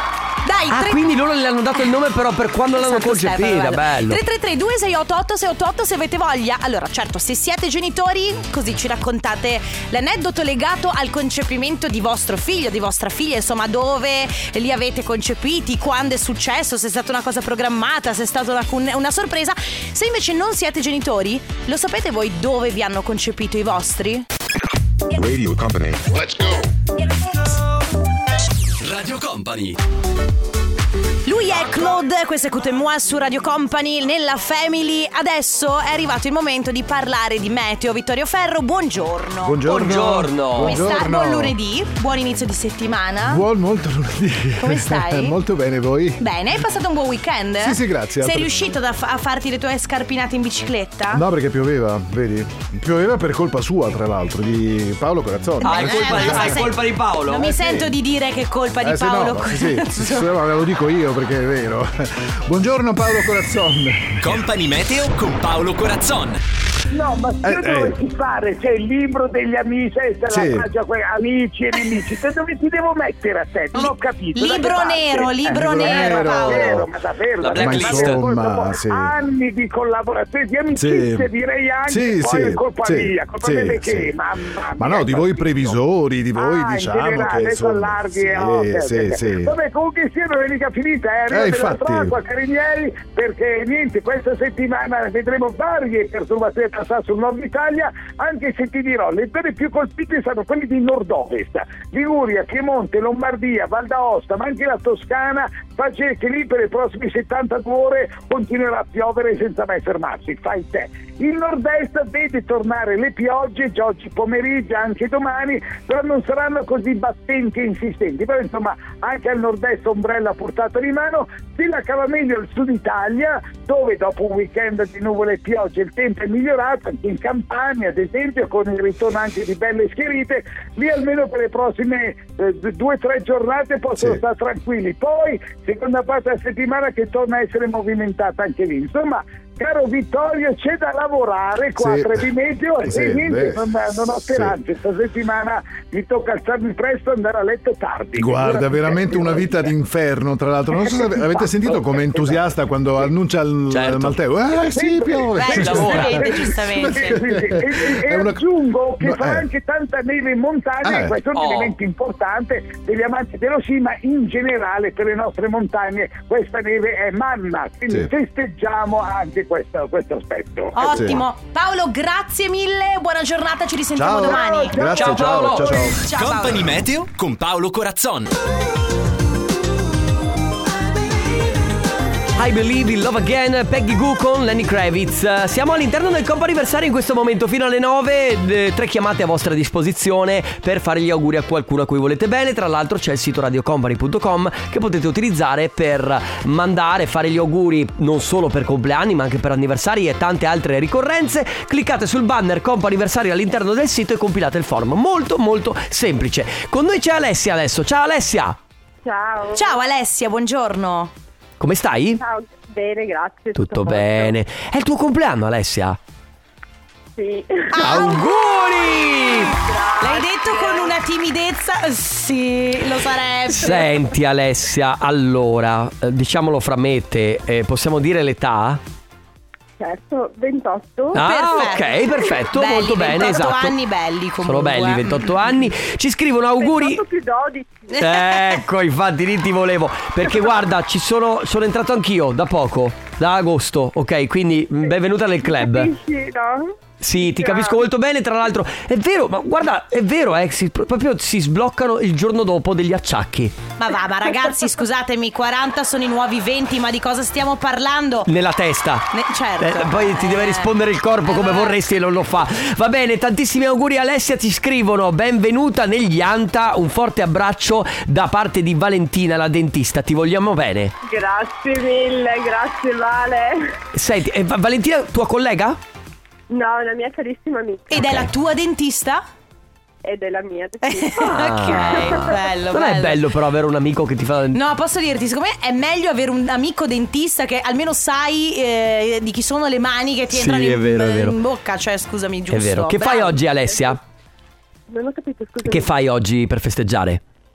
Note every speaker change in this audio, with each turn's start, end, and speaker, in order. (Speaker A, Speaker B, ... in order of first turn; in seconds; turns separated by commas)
Speaker A: 0.5-1.0, Speaker B: 0.7-4.2, Speaker A: 2.7-24.3, Speaker C: 28.8-29.8, Speaker A: 31.3-40.0, Speaker D: 39.4-41.6, Speaker B: 39.6-40.9, Speaker A: 40.6-43.4, Speaker D: 43.2-46.2, Speaker A: 44.6-45.4, Speaker A: 46.2-51.2, Speaker D: 47.6-48.6, Speaker D: 51.1-56.6, Speaker A: 55.6-60.2, Speaker B: 55.6-57.6, Speaker D: 57.5-57.9, Speaker D: 58.8-64.3, Speaker C: 64.2-66.4, Speaker E: 66.9-85.8, Speaker D: 67.4-68.0, Speaker D: 70.3-70.7, Speaker A: 73.7-76.9, Speaker D: 75.5-76.9, Speaker B: 77.4-78.2, Speaker D: 77.5-79.2, Speaker D: 80.8-81.3, Speaker D: 81.9-84.2, Speaker D: 84.8-89.5, Speaker E: 86.3-149.7, Speaker D: 91.3-92.2, Speaker D: 141.8-142.3, Speaker D: 142.8-144.6, Speaker D: 148.2-158.4, Speaker E: 150.8-152.4, Speaker B: 153.7-154.2, Speaker E: 154.7-156.2, Speaker A: 155.4-157.2, Speaker B: 155.6-156.2, Speaker E: 156.8-170.9, Speaker D: 159.0-159.5, Speaker D: 160.8-161.2, Speaker B: 161.3-161.8, Speaker A: 170.8-176.8, Speaker D: 170.8-171.2, Speaker D: 174.0-176.0, Speaker E: 174.3-175.8, Speaker B: 175.0-175.8, Speaker C: 176.1-178.3, Speaker B: 182.4-208.6, Speaker F: 209.0-209.7, Speaker A: 209.5-211.1, Speaker B: 211.6-212.2, Speaker F: 212.2-214.3, Speaker B: 213.6-216.0, Speaker F: 217.2-217.8, Speaker A: 217.7-219.4, Speaker B: 217.8-219.6, Speaker F: 219.5-220.9, Speaker A: 220.0-223.9, Speaker B: 223.6-228.8, Speaker F: 229.8-231.2, Speaker B: 231.1-233.8, Speaker A: 231.2-235.5, Speaker B: 234.4-237.0, Speaker F: 236.6-237.9, Speaker A: 237.9-238.6, Speaker B: 238.0-245.9, Speaker F: 244.9-247.8, Speaker B: 247.0-253.6, Speaker A: 253.8-258.3, Speaker B: 258.3-259.1, Speaker A: 259.1-260.7, Speaker B: 259.6-270.9, Speaker A: 261.2-261.8, Speaker F: 271.0-273.8, Speaker B: 273.9-275.8, Speaker F: 276.5-278.2, Speaker A: 277.9-279.2, Speaker F: 280.0-282.2, Speaker A: 280.8-283.2, Speaker B: 281.2-284.6, Speaker A: 284.5-293.4, Speaker B: 290.3-291.4, Speaker B: 292.5-294.0, Speaker F: 294.9-295.9, Speaker B: 295.6-297.2